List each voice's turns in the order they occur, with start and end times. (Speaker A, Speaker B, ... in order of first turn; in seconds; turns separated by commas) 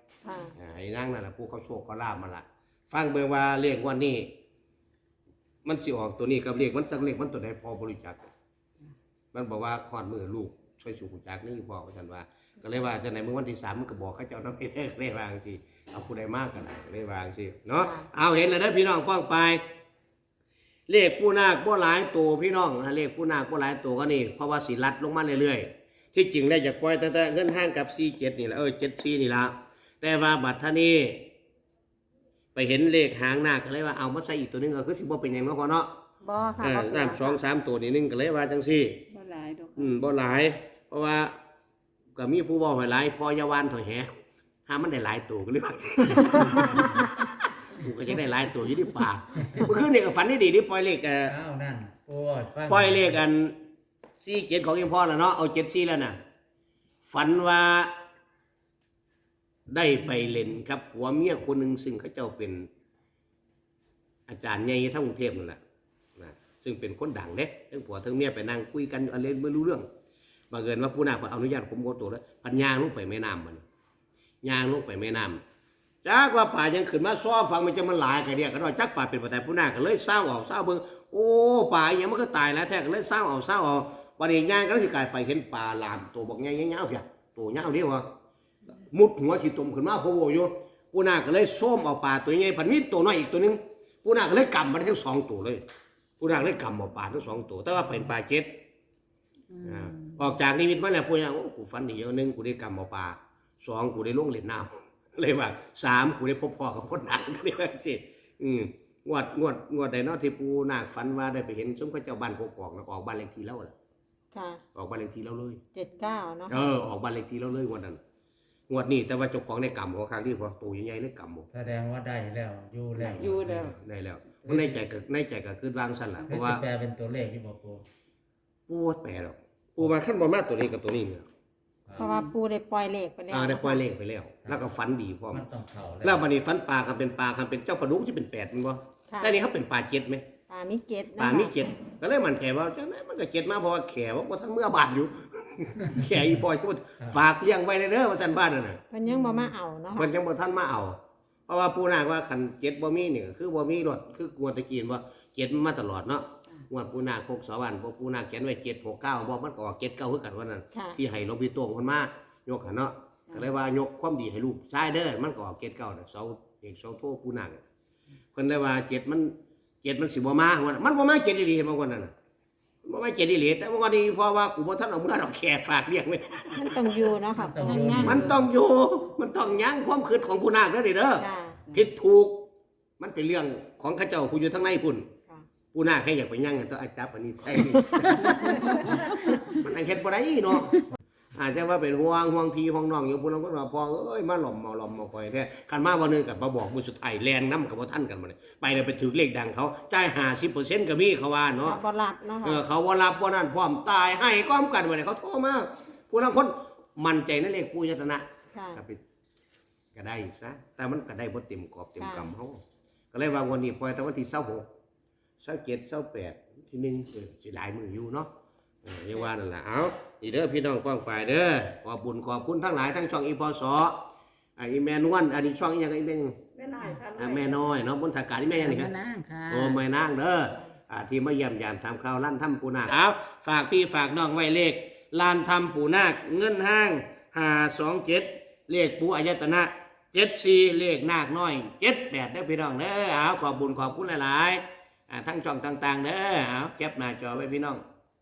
Speaker A: 0.2-0.5, Speaker B: 0.6-4.3, Speaker B: 5.7-8.2, Speaker B: 9.3-19.6, Speaker A: 17.8-18.1, Speaker B: 20.9-31.3, Speaker B: 32.5-35.9, Speaker A: 36.2-37.4, Speaker B: 36.6-39.0, Speaker C: 39.1-40.0, Speaker B: 39.8-41.4, Speaker B: 42.1-44.1, Speaker B: 44.7-51.4, Speaker A: 46.5-46.8, Speaker D: 51.3-53.2, Speaker B: 52.7-53.6, Speaker B: 54.2-56.2, Speaker B: 57.0-57.9, Speaker B: 59.7-62.7, Speaker B: 64.3-65.6, Speaker B: 66.2-69.9, Speaker B: 70.5-73.6, Speaker B: 74.4-75.4, Speaker B: 76.0-88.1, Speaker B: 88.9-95.6, Speaker B: 96.2-98.5, Speaker C: 99.5-100.3, Speaker B: 99.6-113.7, Speaker A: 114.3-114.6, Speaker B: 114.8-115.6, Speaker A: 115.7-116.7, Speaker B: 116.5-118.0, Speaker B: 118.7-121.5, Speaker D: 121.5-123.7, Speaker B: 123.0-126.6, Speaker C: 123.2-123.8, Speaker D: 124.4-124.8, Speaker D: 126.3-127.8, Speaker B: 128.7-131.3, Speaker C: 132.0-132.3, Speaker A: 132.0-133.8, Speaker B: 133.3-135.5, Speaker D: 135.3-136.2, Speaker B: 136.0-140.2, Speaker A: 139.1-139.4, Speaker A: 140.5-141.6, Speaker B: 141.2-148.8, Speaker A: 148.9-150.1, Speaker C: 149.1-149.5, Speaker B: 149.9-167.6, Speaker B: 168.3-172.1, Speaker B: 172.8-177.2, Speaker A: 176.6-177.9, Speaker D: 177.4-178.4, Speaker C: 177.6-178.4, Speaker B: 178.0-182.5, Speaker A: 181.2-181.6, Speaker B: 183.0-185.1, Speaker B: 185.7-190.8, Speaker A: 188.2-189.3, Speaker B: 191.3-201.8, Speaker A: 201.6-202.6, Speaker B: 202.4-209.0, Speaker A: 208.5-208.8, Speaker B: 209.9-212.6, Speaker A: 212.0-212.3, Speaker B: 213.1-214.7, Speaker B: 215.4-218.3, Speaker B: 218.8-224.0, Speaker B: 224.6-226.4, Speaker A: 226.6-227.0, Speaker C: 226.8-227.1, Speaker B: 227.2-228.9, Speaker C: 228.6-229.8, Speaker B: 229.5-247.8